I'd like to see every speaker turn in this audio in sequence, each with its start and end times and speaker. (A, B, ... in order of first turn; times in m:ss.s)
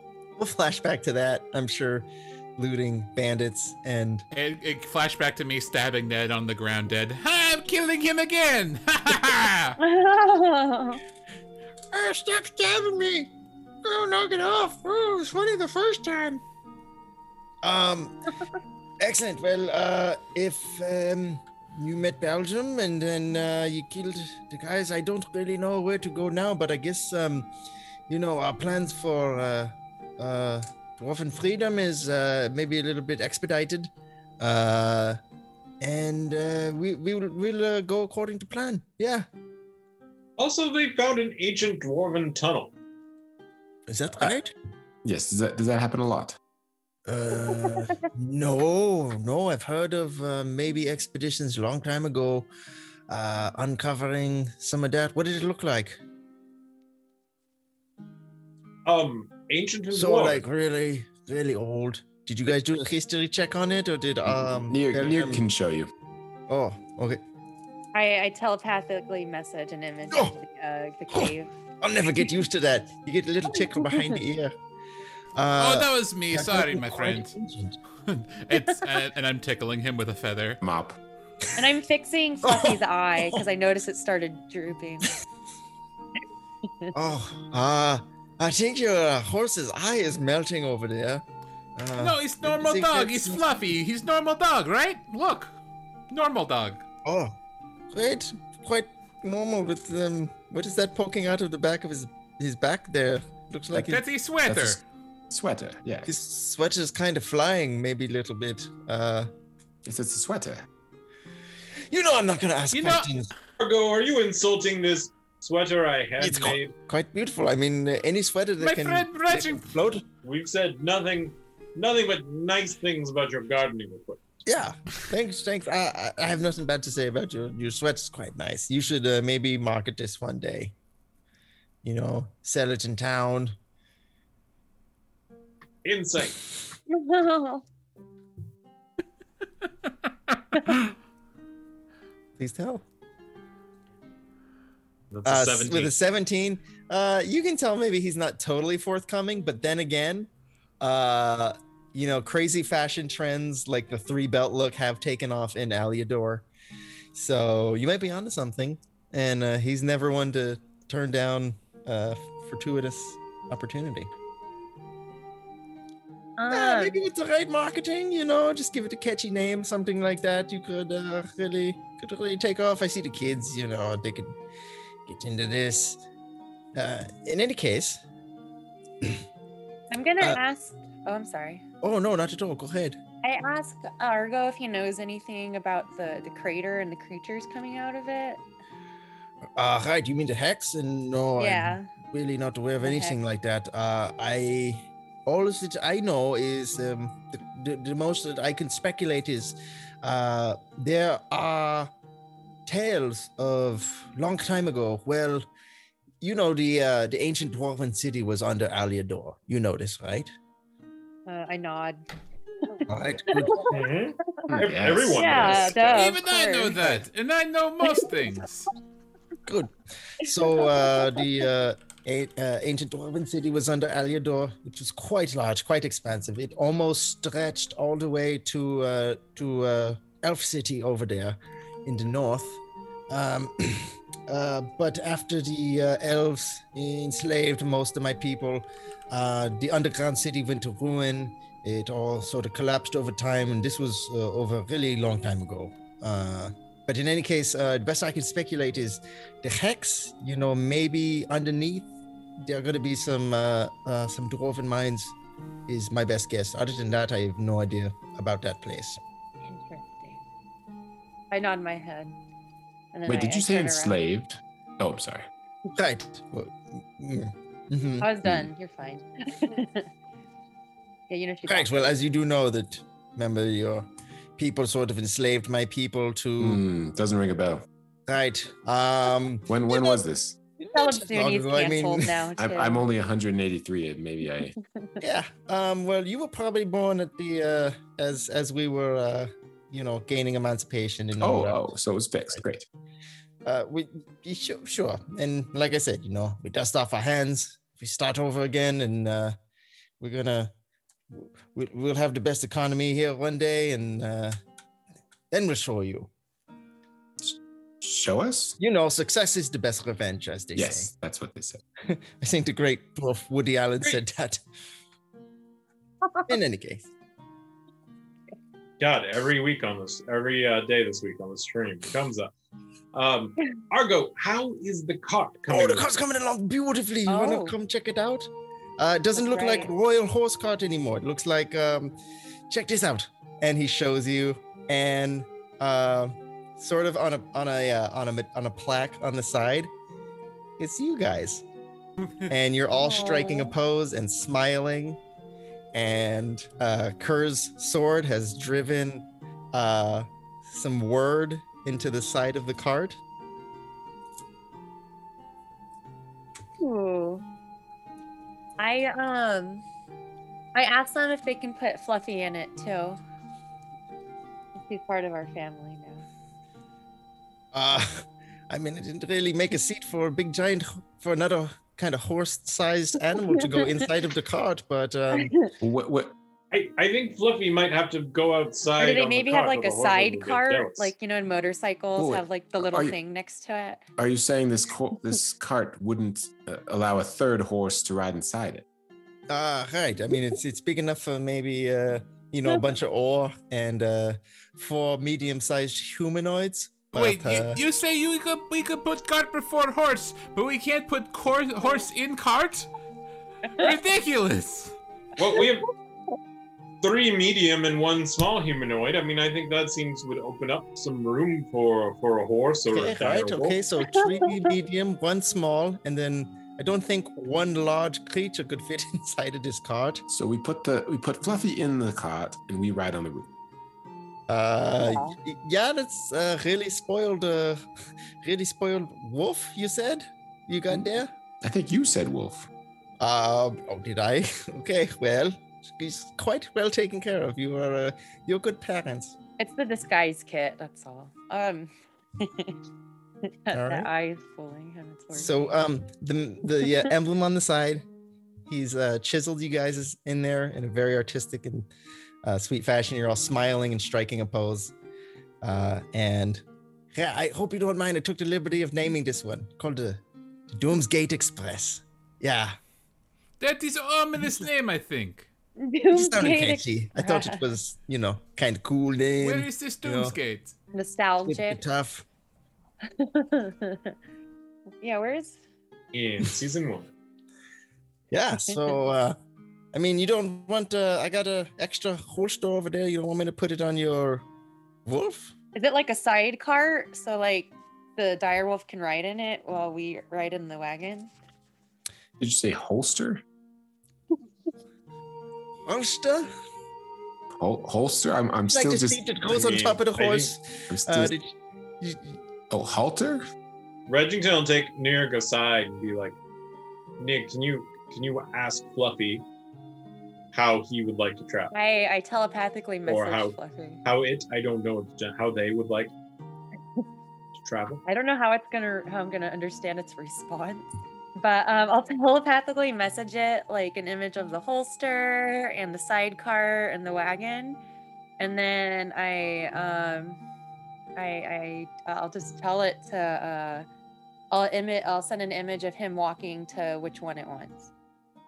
0:00.4-0:02.0 A
0:02.6-0:04.2 A
0:04.3-0:09.8 B
0:09.8-0:11.0 C
0:11.9-0:13.3 A
0:13.8-0:16.4 A
0:17.6-0:18.1 A
0:19.0-0:27.5 A
0:28.1-0:35.2 A
0:35.8-0:39.3 A
0:40.4-0:42.7 D
0:43.9-0:44.5 A
0:45.0-0:46.4 E
0:47.0-0:52.5 A
0:53.1-0:56.0 A
0:58.8-1:00.4 D
0:59.9-1:05.4 A
1:04.3-1:05.9 E
1:06.5-1:07.2 A
1:07.9-1:11.5 C
1:10.1-1:10.3 A
1:11.1-1:14.5 A
1:13.7-1:14.1 C
1:15.4-1:17.8 A
1:15.6-1:17.3 B
1:18.1-1:20.6 B
1:20.6-1:21.0 E
1:21.6-1:25.2 C
1:22.4-1:23.4 A
1:26.9-1:31.2 A
1:31.8-1:33.4 A
1:32.0-1:35.6 B
1:36.1-1:36.8 B
1:37.0-1:37.4 A
1:37.9-1:44.1 A
1:43.7-1:44.8 B
1:44.4-1:46.2 E
1:46.0-1:49.3 A
1:49.8-1:50.6 E
1:51.9-1:53.3 A
1:52.7-1:53.1 B
1:53.6-1:56.7 D
1:56.2-2:00.0 A
1:58.6-1:59.6 B
2:00.2-2:04.3 D
2:04.4-2:10.7 A
2:11.8-2:13.5 A
2:15.8-2:16.4 D
2:16.9-2:17.6 C
2:22.4-2:22.8 A
2:25.1-2:25.9 D
2:25.2-2:36.4 A
2:37.1-2:44.1 A
2:46.4-2:47.0 C
2:46.5-2:54.3 A
2:55.0-2:56.0 A
2:56.7-2:58.0 A
2:59.9-3:01.6 C
3:01.8-3:03.0 A
3:03.2-3:08.4 C
3:09.6-3:21.9 A
3:11.4-3:11.9 C
3:12.8-3:13.2 C
3:22.6-3:25.4 A
3:26.2-3:30.3 A
3:31.3-3:32.0 C
3:32.6-3:33.8 C
3:32.9-3:33.7 A
3:33.7-3:35.9 D
3:34.5-3:36.0 E
3:35.1-3:36.8 C
3:35.9-3:38.7 B
3:36.8-3:37.0 A
3:37.8-3:38.1 C
3:39.4-4:11.9 A
3:40.6-3:41.2 C
4:12.4-4:15.1 A
4:15.7-4:19.0 A
4:19.4-4:20.2 C
4:21.3-4:22.1 C
4:22.9-4:24.0 C
4:23.0-4:25.2 E
4:25.7-4:28.1 A
4:28.0-4:29.9 C
4:28.2-4:28.5 E
4:31.1-4:31.9 C
4:31.5-4:33.8 A
4:34.4-4:36.6 A
4:36.4-4:37.6 E
4:38.1-4:40.0 A
4:39.5-4:40.4 E
4:40.6-4:42.3 A
4:40.7-4:42.8 C
4:42.4-4:44.6 E
4:45.0-4:51.6 A
4:51.2-4:52.6 E
4:53.4-4:59.3 A
5:00.0-5:00.5 A
5:01.1-5:04.4 A
5:05.3-5:06.1 A
5:07.2-5:08.6 E
5:08.6-5:10.9 A
5:10.5-5:11.6 E
5:11.8-5:14.4 A
5:16.3-5:16.8 A
5:18.8-5:22.3 D
5:22.9-5:25.9 D
5:25.5-5:31.9 A
5:27.1-5:27.5 C
5:29.2-5:29.7 C
5:32.5-5:39.7 A
5:40.6-5:41.4 A
5:42.3-5:45.0 A
5:42.8-5:43.5 C
5:45.7-5:53.0 A
5:56.6-5:57.2 C
5:58.6-5:59.6 C
6:00.5-6:03.0 C
6:04.7-6:06.0 C
6:07.5-6:15.3 A
6:13.3-6:13.8 C
6:15.2-6:15.5 C
6:15.6-6:16.1 E
6:16.5-6:20.9 D
6:18.8-6:23.8 C
6:22.0-6:23.0 E
6:24.0-6:28.6 E
6:29.3-6:37.6 A
6:36.9-6:42.7 B
6:43.6-6:44.7 B
6:45.2-6:45.7 D
6:46.8-6:53.6 D
6:52.7-7:00.0 A
6:53.8-6:54.4 C
7:00.1-7:03.2 E
7:04.3-7:07.6 A
7:04.8-7:05.2 C
7:08.2-7:11.1 A
7:11.4-7:12.5 E
7:13.0-7:19.2 A
7:19.4-7:22.6 C
7:23.2-7:25.5 C
7:23.5-7:23.9 A
7:25.1-7:27.8 A
7:26.6-7:26.9 C
7:28.5-7:31.7 A
7:32.2-7:34.7 A
7:35.4-7:42.6 A
7:43.4-7:45.3 B
7:44.2-7:44.5 A
7:45.6-7:47.5 C
7:45.9-7:50.2 A
7:49.2-7:50.5 B
7:50.7-7:51.6 C
7:51.2-7:52.0 A
7:52.9-7:53.9 C
7:54.8-7:55.4 C
7:55.9-7:56.9 D
7:58.1-7:59.2 A
7:58.5-7:58.7 C
7:59.7-8:04.2 A
8:04.8-8:05.3 A
8:05.5-8:11.1 C
8:12.2-8:13.2 E
8:15.6-8:16.3 A
8:17.4-8:19.0 E
8:18.5-8:22.2 A
8:19.3-8:20.3 D
8:20.7-8:21.1 E
8:22.5-8:23.2 E
8:23.9-8:26.2 D
8:27.0-8:29.2 D
8:30.3-8:31.5 D
8:31.5-8:33.8 C
8:32.8-8:35.9 D
8:37.4-8:37.8 D
8:37.8-8:47.6 C
8:48.2-8:50.2 C
8:51.0-8:53.6 C
8:54.3-8:57.7 C